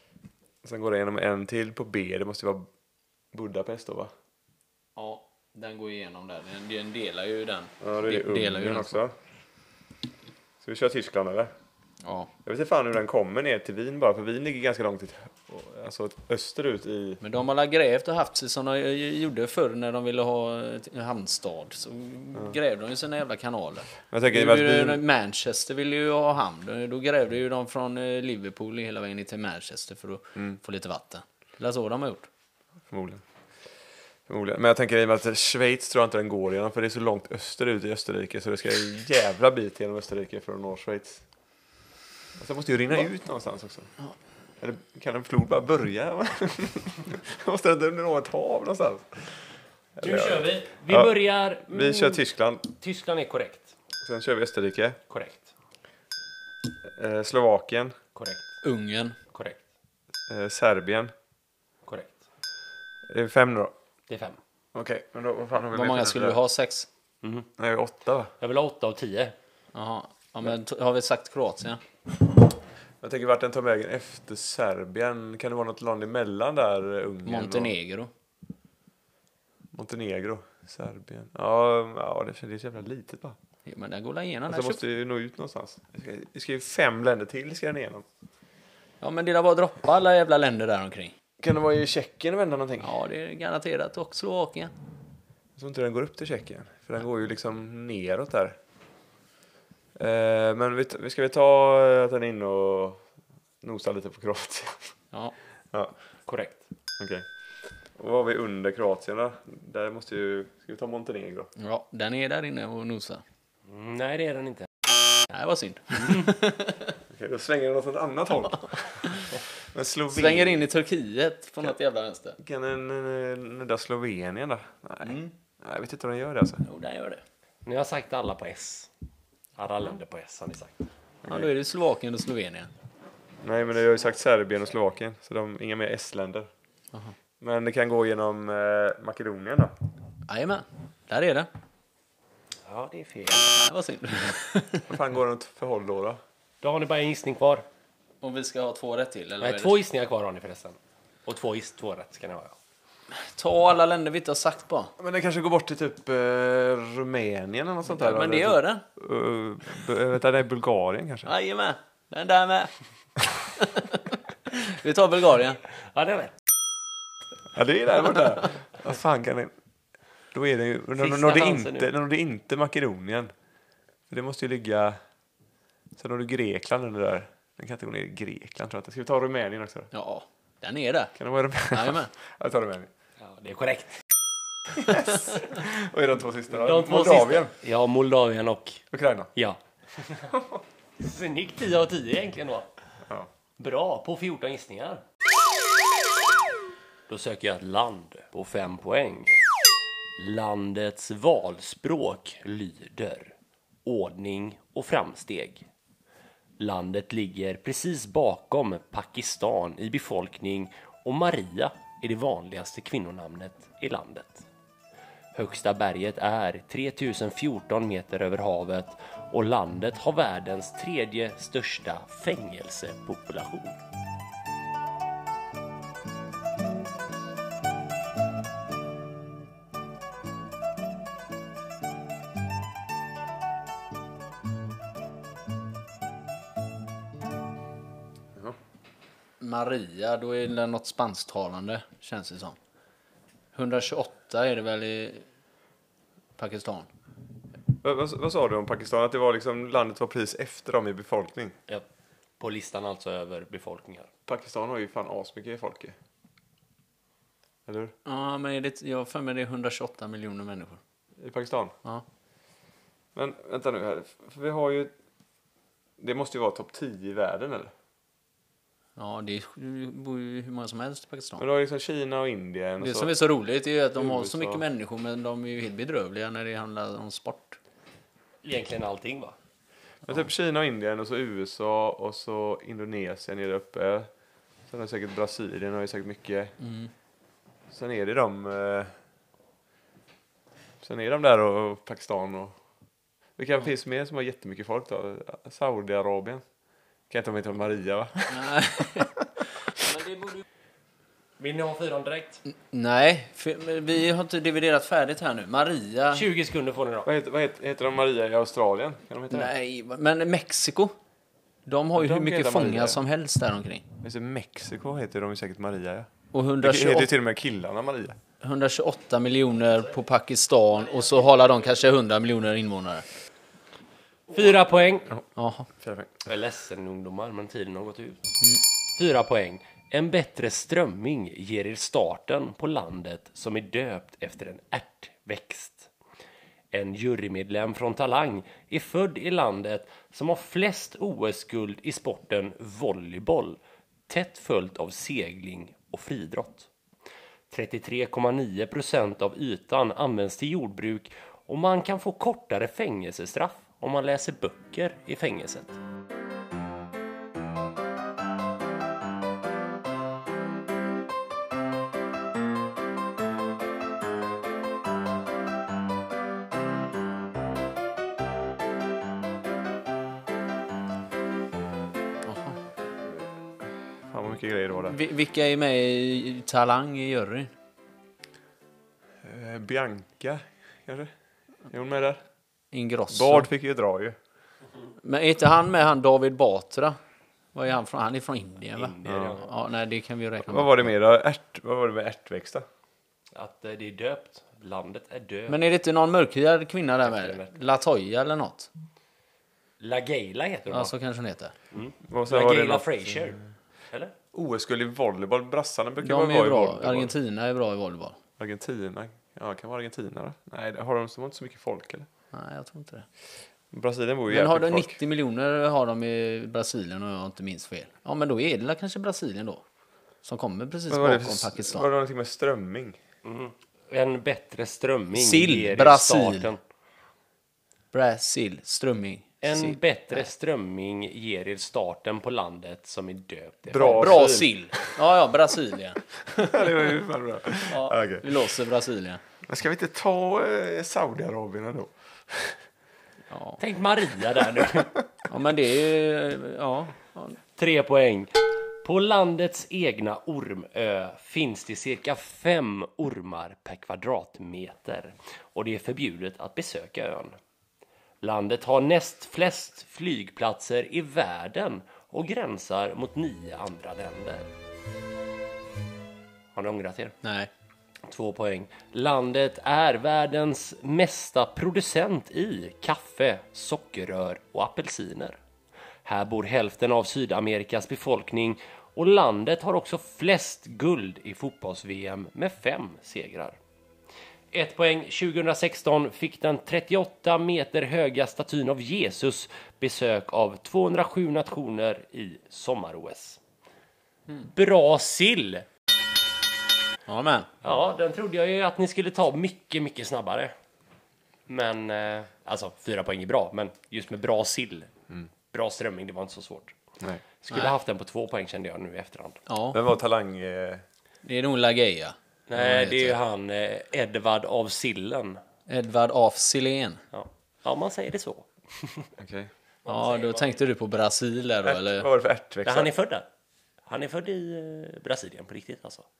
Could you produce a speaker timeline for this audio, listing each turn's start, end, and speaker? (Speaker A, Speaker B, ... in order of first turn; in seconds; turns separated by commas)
Speaker A: 0.6-2.7, Speaker A: 3.3-4.1, Speaker B: 5.0-9.0, Speaker A: 7.8-9.1, Speaker A: 10.6-11.5, Speaker B: 12.0-12.3, Speaker A: 12.4-17.2, Speaker B: 17.2-32.3, Speaker A: 24.1-25.0, Speaker A: 32.9-33.2, Speaker A: 34.3-41.2, Speaker A: 42.4-43.9, Speaker A: 44.6-49.4, Speaker A: 50.0-51.1, Speaker C: 50.0-52.2, Speaker A: 51.6-52.6, Speaker C: 52.8-53.7, Speaker A: 54.0-55.0, Speaker C: 55.1-55.5, Speaker A: 56.8-57.9, Speaker C: 58.1-58.5, Speaker B: 58.6-59.2, Speaker C: 59.3-59.6, Speaker A: 60.3-61.1, Speaker C: 61.9-62.2, Speaker A: 63.1-63.7, Speaker C: 64.1-64.4, Speaker A: 64.7-66.4, Speaker B: 65.7-66.9, Speaker C: 67.2-67.5, Speaker A: 67.6-68.3, Speaker C: 68.4-69.3, Speaker B: 69.7-71.8, Speaker A: 73.0-77.7, Speaker B: 77.2-78.1, Speaker A: 79.7-83.3, Speaker B: 83.7-84.8, Speaker A: 84.5-88.0, Speaker B: 89.0-91.1, Speaker A: 91.4-92.9, Speaker B: 92.8-94.7, Speaker A: 95.5-98.6, Speaker A: 100.0-103.0, Speaker A: 103.6-104.9, Speaker C: 106.3-106.6, Speaker A: 107.0-107.3, Speaker A: 107.9-111.5, Speaker B: 111.6-113.2, Speaker C: 113.7-114.7, Speaker B: 115.3-116.9, Speaker A: 117.1-120.6, Speaker B: 120.1-122.4, Speaker A: 122.4-126.6, Speaker B: 125.0-125.3, Speaker B: 126.6-127.2, Speaker C: 127.6-128.9, Speaker C: 129.6-130.8, Speaker A: 131.2-131.5, Speaker B: 131.2-132.7, Speaker A: 133.4-136.5, Speaker A: 137.4-139.7, Speaker B: 140.3-141.5, Speaker C: 142.7-143.6, Speaker B: 143.5-144.9, Speaker A: 144.9-146.2, Speaker C: 146.6-147.7, Speaker B: 148.2-149.8, Speaker C: 149.4-152.6, Speaker B: 153.1-154.9, Speaker A: 155.0-161.3, Speaker B: 157.9-158.8, Speaker B: 161.2-162.7, Speaker B: 163.6-165.6, Speaker C: 165.8-166.3, Speaker A: 167.5-169.5, Speaker A: 170.3-173.3, Speaker C: 170.9-171.9, Speaker A: 174.1-175.0, Speaker A: 175.9-179.9, Speaker B: 179.9-181.2, Speaker A: 181.2-182.9, Speaker B: 181.7-182.1, Speaker C: 183.2-184.0, Speaker A: 184.8-187.5, Speaker C: 186.5-188.8, Speaker A: 188.9-189.3, Speaker C: 189.3-190.3, Speaker C: 191.0-192.7, Speaker C: 193.6-195.0, Speaker C: 197.1-199.4, Speaker C: 200.2-205.7, Speaker C: 206.6-214.5, Speaker C: 215.3-223.8, Speaker B: 239.4-242.6, Speaker B: 243.5-245.2, Speaker B: 246.4-246.9, Speaker A: 247.8-251.5, Speaker C: 252.4-254.1, Speaker A: 254.3-255.9, Speaker A: 257.6-257.9, Speaker B: 258.1-260.8, Speaker A: 261.2-261.7, Speaker A: 263.1-264.9, Speaker A: 266.0-267.7, Speaker B: 269.0-271.4, Speaker A: 271.4-273.1, Speaker B: 272.8-277.6, Speaker A: 273.9-274.6, Speaker C: 278.4-279.4, Speaker A: 280.1-284.1, Speaker A: 284.7-286.5, Speaker B: 286.6-286.9, Speaker A: 287.7-288.9, Speaker A: 290.8-292.6, Speaker A: 293.4-296.4, Speaker A: 297.1-299.1, Speaker B: 298.3-299.1, Speaker C: 301.4-302.4, Speaker B: 302.7-306.3, Speaker C: 306.1-307.1, Speaker A: 307.0-309.5, Speaker B: 309.3-310.9, Speaker B: 311.6-313.9, Speaker A: 311.9-313.0, Speaker A: 314.0-316.1, Speaker B: 316.3-317.1, Speaker A: 316.6-318.2, Speaker B: 318.4-323.0, Speaker C: 324.3-325.1, Speaker B: 325.4-325.7, Speaker A: 325.8-326.1, Speaker C: 326.2-328.3, Speaker C: 328.9-335.9, Speaker C: 336.7-346.7, Speaker C: 347.5-355.8, Speaker B: 372.2-372.6, Speaker A: 374.0-375.0, Speaker B: 374.9-377.5, Speaker A: 379.2-381.1, Speaker A: 381.7-382.2, Speaker B: 382.7-383.5, Speaker A: 383.1-384.1, Speaker B: 385.0-387.0, Speaker B: 387.5-390.9, Speaker C: 388.8-389.5, Speaker A: 389.0-389.3, Speaker A: 390.4-392.6, Speaker C: 393.3-395.6, Speaker B: 395.5-398.7, Speaker C: 397.0-397.5, Speaker C: 399.8-400.9, Speaker B: 400.7-401.5, Speaker C: 401.7-404.1, Speaker A: 402.1-403.3, Speaker A: 404.3-407.1, Speaker B: 406.0-408.2, Speaker A: 408.4-412.1, Speaker B: 412.3-413.1, Speaker A: 413.7-415.0, Speaker B: 414.3-419.6, Speaker B: 420.2-421.9, Speaker A: 420.9-423.0, Speaker C: 423.2-426.6, Speaker B: 425.1-426.5, Speaker B: 427.9-430.2, Speaker C: 429.4-434.1, Speaker A: 433.7-434.9, Speaker B: 433.7-436.8, Speaker A: 436.3-438.4, Speaker B: 437.6-439.2, Speaker A: 439.4-442.6, Speaker B: 443.3-443.6, Speaker C: 443.6-444.9, Speaker B: 445.3-447.4, Speaker C: 447.6-457.4, Speaker C: 458.2-464.5, Speaker C: 466.5-467.1, Speaker B: 467.2-467.5, Speaker C: 468.1-475.4, Speaker C: 476.0-483.6, Speaker C: 484.5-493.4, Speaker C: 494.5-495.6, Speaker B: 497.1-497.5, Speaker C: 497.6-500.5, Speaker C: 501.5-504.9, Speaker C: 505.5-506.8, Speaker C: 507.4-509.4, Speaker B: 509.5-509.8, Speaker A: 509.7-510.8, Speaker B: 511.2-513.1, Speaker C: 512.5-515.4, Speaker B: 515.7-517.0, Speaker C: 517.1-519.1, Speaker A: 519.2-519.5, Speaker C: 519.8-520.6, Speaker B: 519.9-522.1, Speaker A: 521.6-522.9, Speaker C: 522.6-523.3, Speaker C: 523.9-526.0